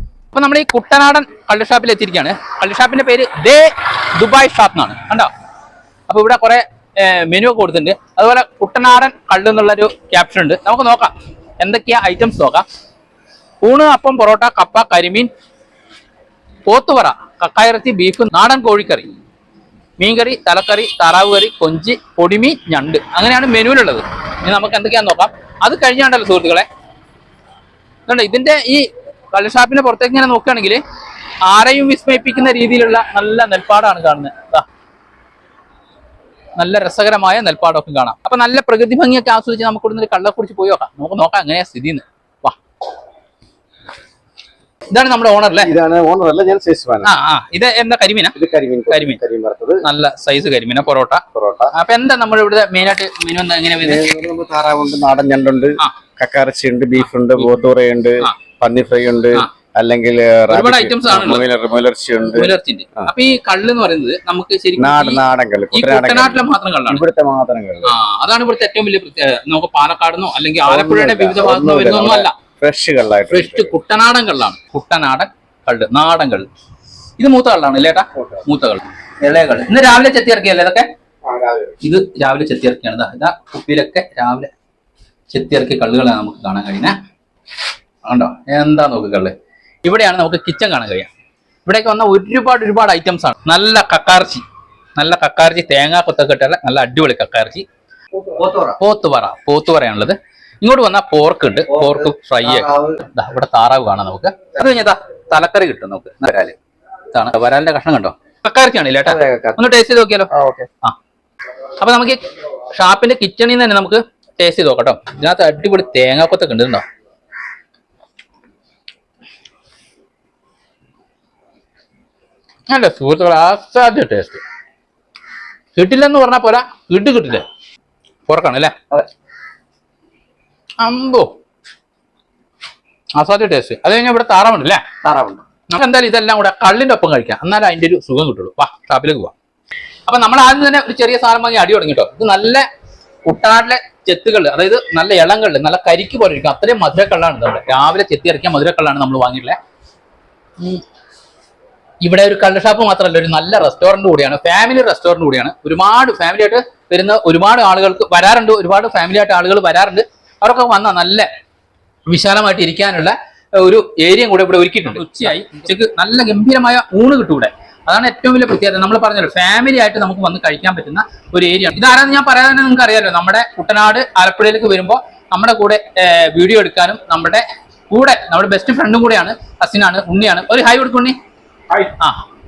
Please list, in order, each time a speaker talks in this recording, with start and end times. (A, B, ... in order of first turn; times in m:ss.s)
0:00.3-0:05.3 A
0:06.1-0:12.7 A
0:13.6-0:15.3 A
0:16.7-0:19.1 A
0:20.0-0:26.7 A
0:28.1-0:30.8 A
0:31.4-0:34.7 A
0:36.6-0:42.6 A
0:44.9-0:45.7 A
0:45.6-0:47.1 B
0:47.0-0:48.4 A
0:48.4-0:49.8 B
0:48.9-0:49.2 A
0:49.8-0:54.1 A
0:51.3-0:51.7 B
0:53.8-1:03.1 B
0:57.4-0:57.6 A
1:00.5-1:01.5 A
1:02.3-1:07.0 A
1:04.8-1:08.0 B
1:07.8-1:12.4 A
1:10.6-1:13.7 B
1:13.3-1:16.5 A
1:17.2-1:20.9 A
1:18.2-1:18.4 B
1:21.2-1:21.7 B
1:21.8-1:24.5 A
1:25.3-1:27.0 A
1:28.0-1:31.1 A
1:31.7-1:34.4 A
1:35.0-1:37.6 A
1:38.2-1:38.8 B
1:38.8-1:46.6 A
1:41.7-1:43.0 B
1:47.1-1:50.3 A
1:49.0-1:49.6 B
1:50.3-1:50.7 B
1:51.8-1:56.8 A
2:02.7-2:04.4 A
2:05.8-2:07.5 A
2:08.3-2:08.8 A
2:10.8-2:11.3 A
2:13.2-2:14.9 A
2:15.0-2:15.4 B
2:15.7-2:19.3 A
2:20.1-2:22.7 A
2:23.3-2:29.6 A
2:32.0-2:41.3 A
2:42.1-3:01.2 A
3:01.9-3:02.2 A